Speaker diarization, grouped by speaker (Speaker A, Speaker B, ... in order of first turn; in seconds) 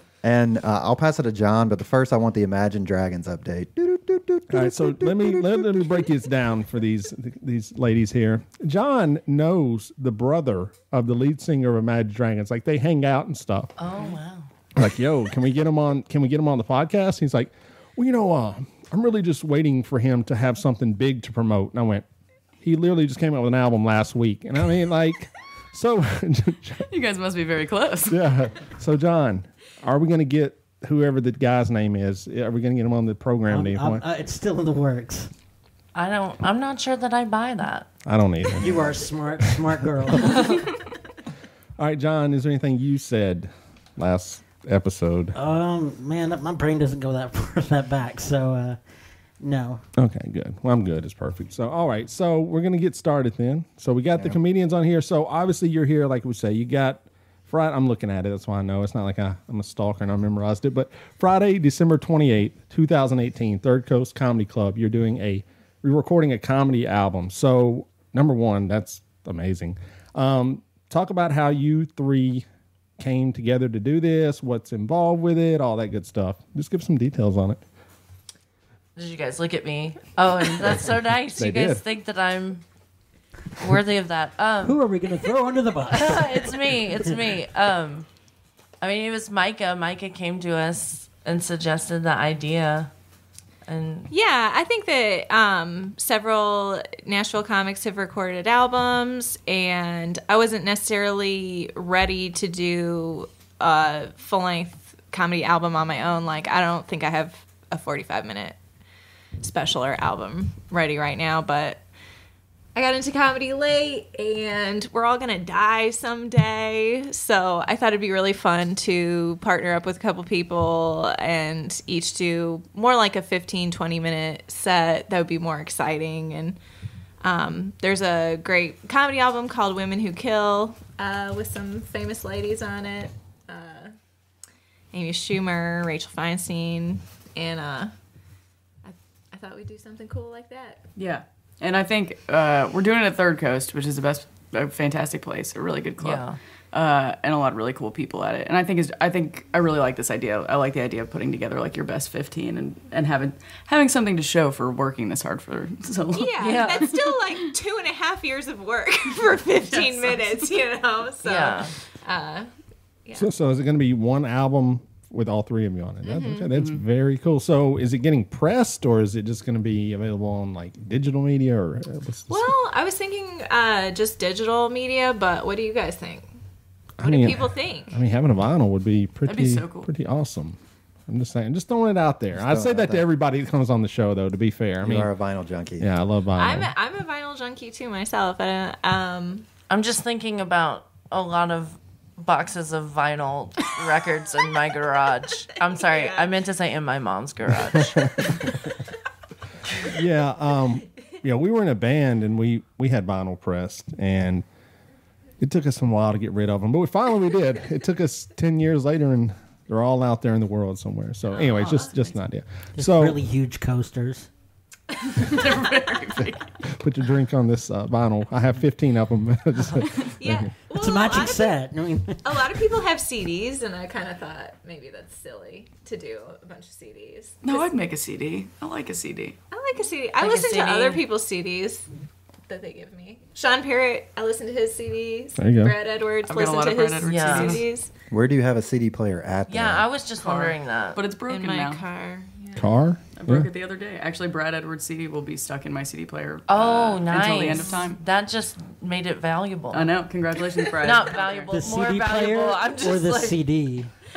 Speaker A: 0.2-6.0, 182.3-183.1, 184.8-185.9, 238.1-239.8
Speaker B: 4.5-13.7, 14.8-22.0, 22.6-26.9, 28.1-34.0, 38.0-39.6, 40.1-40.5, 41.8-45.3, 50.0-72.4, 73.0-77.6, 81.4-81.8, 163.1-172.5, 177.0-180.6, 181.1-185.1, 185.8-186.7, 197.7-198.6, 199.8-204.4, 205.4-213.2, 216.3-220.5, 235.4-235.8, 242.5-243.5
Speaker C: 13.8-14.5, 35.9-37.9, 40.2-40.5, 79.0-82.6, 83.6-84.8, 85.9-88.0, 88.8-92.9, 93.7-94.1, 146.0-146.4, 156.4-156.9, 161.2-161.7, 189.7-198.5, 230.2-231.0, 237.1-237.6, 239.5-241.0, 246.5-249.9, 250.8-253.4
Speaker D: 26.9-28.2, 140.9-157.2, 159.7-160.5, 166.5-166.8, 179.2-179.9, 215.2-216.4, 227.4-229.3, 236.2-237.6, 240.2-241.8, 243.1-248.0, 249.7-251.5
Speaker E: 33.5-35.3, 38.6-40.3, 45.3-48.8, 49.4-49.8, 84.6-87.1, 212.8-214.3, 220.7-222.4, 251.5-253.9
Speaker F: 94.1-108.5, 109.4-111.8, 112.7-126.6, 127.2-133.9, 134.9-137.9, 138.8-140.8, 156.1-162.5, 166.0-166.5, 172.3-176.3, 177.0-178.0, 186.3-189.4, 195.8-196.3, 211.5-211.9, 215.2-215.7, 220.2-221.6, 222.2-227.7, 229.5-231.9, 232.5-237.9, 241.3-242.7